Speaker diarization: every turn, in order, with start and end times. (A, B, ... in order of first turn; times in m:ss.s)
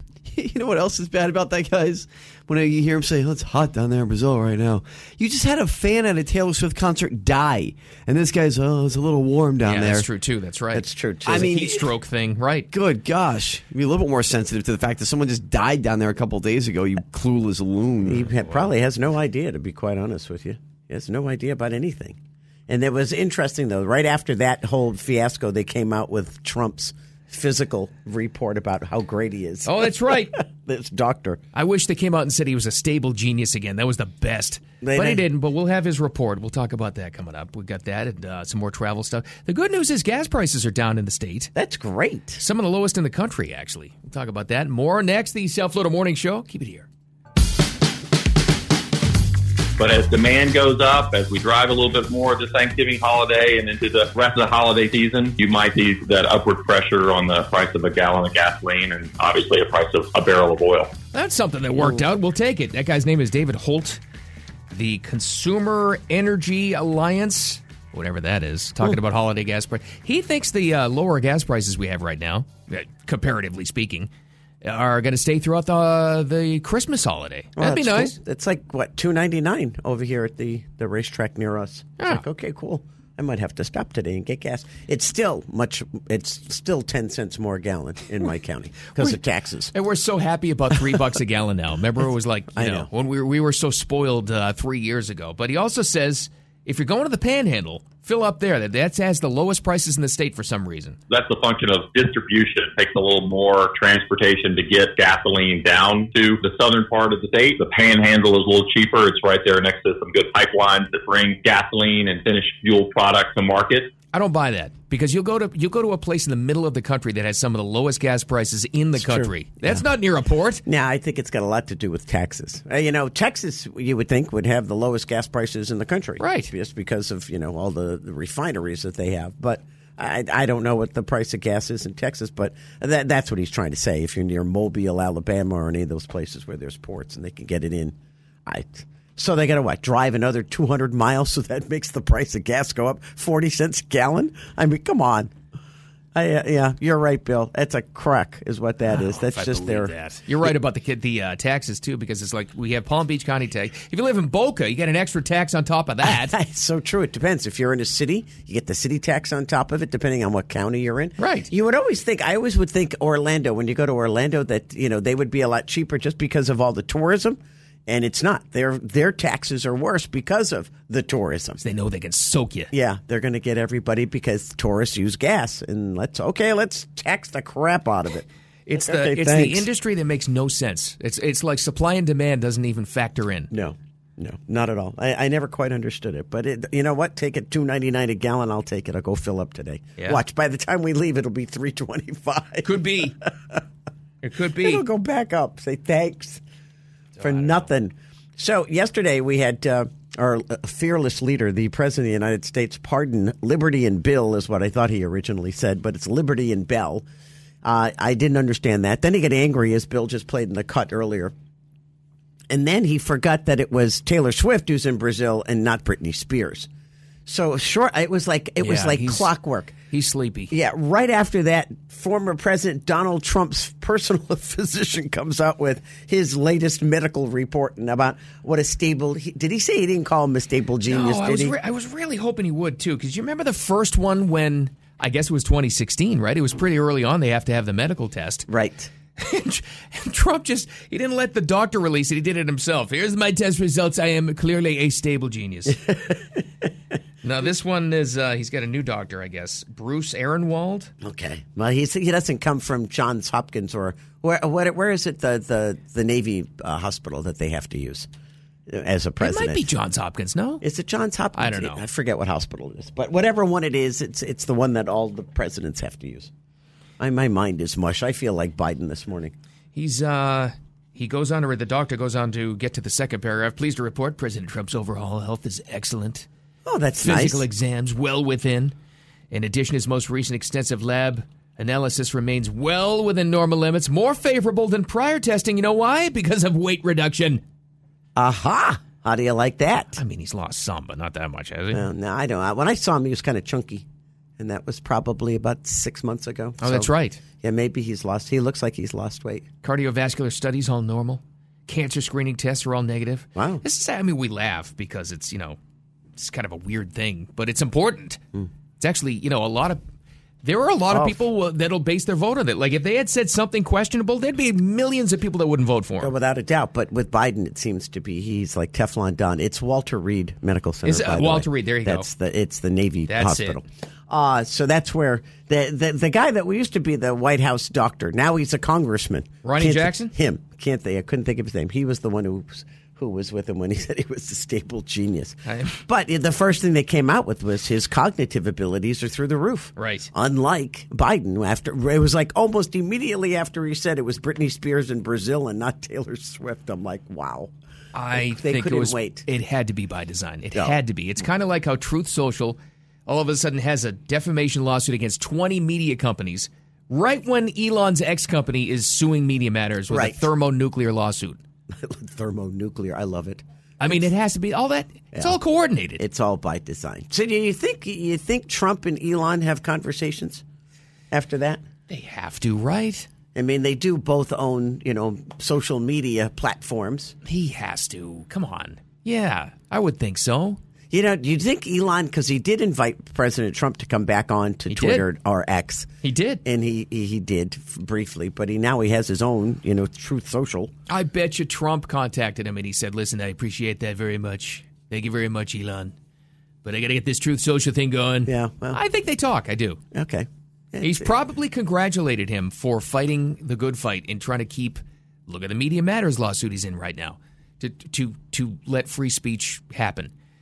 0:00.2-0:10.0 A
0:09.6-0:12.7 B
0:10.7-0:11.6 C
0:11.3-0:11.9 A
0:12.7-0:18.3 A
0:18.0-0:31.4 C
0:29.6-0:30.4 B
0:31.5-0:41.5 B
0:34.8-0:35.2 C
0:41.5-0:42.4 C
0:42.4-0:46.9 B
0:49.8-1:00.9 D
1:01.1-1:04.0 B
1:04.7-1:14.1 B
1:14.6-1:18.2 B
1:17.6-1:29.7 C
1:29.7-1:41.0 B
1:32.5-1:32.9 C
1:41.1-1:53.9 D
1:54.1-2:00.6 B
1:59.0-1:59.8 C
2:00.6-2:17.9 C
2:06.2-2:06.5 B
2:18.4-2:25.3 C
2:26.1-2:30.5 C
2:28.9-2:36.4 B
2:36.0-2:51.6 C
2:41.2-2:41.5 B
2:51.6-2:52.7 B
2:52.7-2:59.7 C
2:58.6-3:03.5 B
3:03.5-3:13.6 C
3:12.6-3:13.2 B
3:14.2-3:14.8 B
3:14.5-3:16.4 C
3:17.2-3:17.6 B
3:17.2-3:27.0 C
3:27.6-3:31.3 C
3:32.5-3:36.7 C
3:37.2-3:39.7 C
3:38.6-3:39.3 B
3:39.9-3:40.5 B
3:40.5-3:51.6 C
3:50.9-3:58.4 B
3:58.5-3:58.9 C
3:59.2-4:06.0 B
4:07.2-4:10.9 B
4:11.0-4:18.1 C
4:18.7-4:19.6 C
4:19.2-4:20.6 B
4:20.6-4:26.3 C
4:21.4-4:21.8 B
4:27.0-4:29.3 C
4:29.7-4:36.3 B
4:36.6-4:37.5 C
4:37.0-4:38.7 B
4:39.3-4:47.4 B
4:48.2-4:50.0 C
4:50.0-4:51.8 B
4:51.7-4:53.8 C
4:54.4-4:59.5 C
4:56.6-4:57.2 B
4:59.6-5:05.6 B
5:03.4-5:03.6 C
5:06.2-5:08.2 B
5:08.8-5:09.8 B
5:10.4-5:16.1 B
5:10.9-5:11.2 C
5:16.0-5:47.5 C
5:20.8-5:22.1 B
5:23.1-5:23.6 B
5:29.4-5:30.1 B
5:35.4-5:35.8 B
5:39.8-5:40.1 B
5:47.9-6:01.4 B
5:48.1-5:49.2 C
5:59.9-6:00.3 C
6:01.7-6:04.0 C
6:03.8-6:06.0 B
6:05.1-6:05.4 C
6:06.0-6:10.4 C
6:11.1-6:11.6 C
6:11.9-6:13.1 B
6:13.3-6:17.1 C
6:17.2-6:20.6 B
6:20.9-6:25.9 C
6:24.7-6:25.1 B
6:26.0-6:26.4 B
6:26.4-6:30.7 C
6:30.9-6:35.9 B
6:36.6-6:39.8 B
6:38.2-6:38.8 C
6:39.9-6:41.1 C
6:40.8-6:50.1 B